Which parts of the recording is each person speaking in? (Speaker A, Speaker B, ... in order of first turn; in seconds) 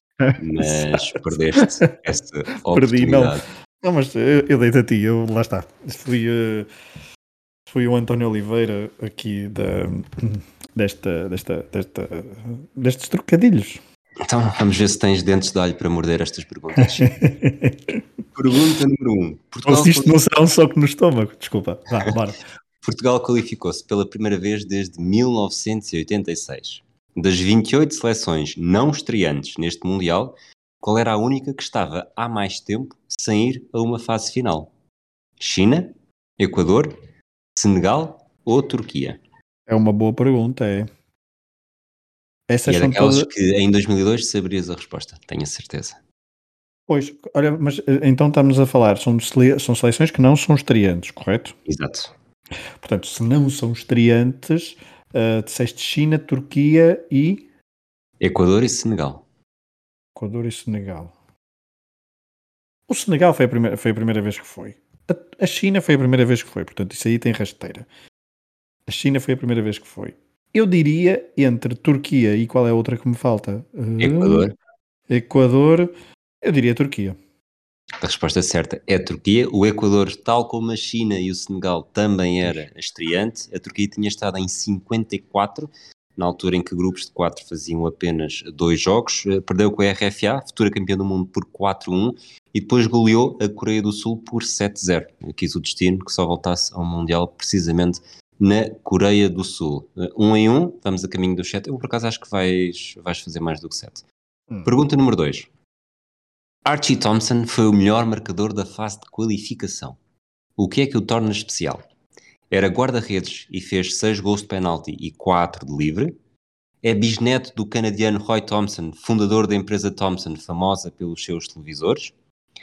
Speaker A: 0.2-1.9, 2.7-6.7, 7.7-13.8, 16.8-18.0, 19.6-22.4, 39.7-40.9, 42.5-43.3, 46.9-51.5, 52.8-57.4, 60.2-61.1, 62.9-67.9, 68.9-74.5, 75.1-75.9, 76.4-77.2
Speaker B: 0.4-3.4, 14.3-17.1, 18.4-20.1, 22.8-34.7, 35.4-37.0, 37.5-39.2, 42.7-46.0, 51.7-52.1, 58.2-59.2, 74.0-74.5, 78.0-104.0, 104.7-105.5, 106.7-110.0, 110.6-111.8, 112.5-116.1, 116.8-122.1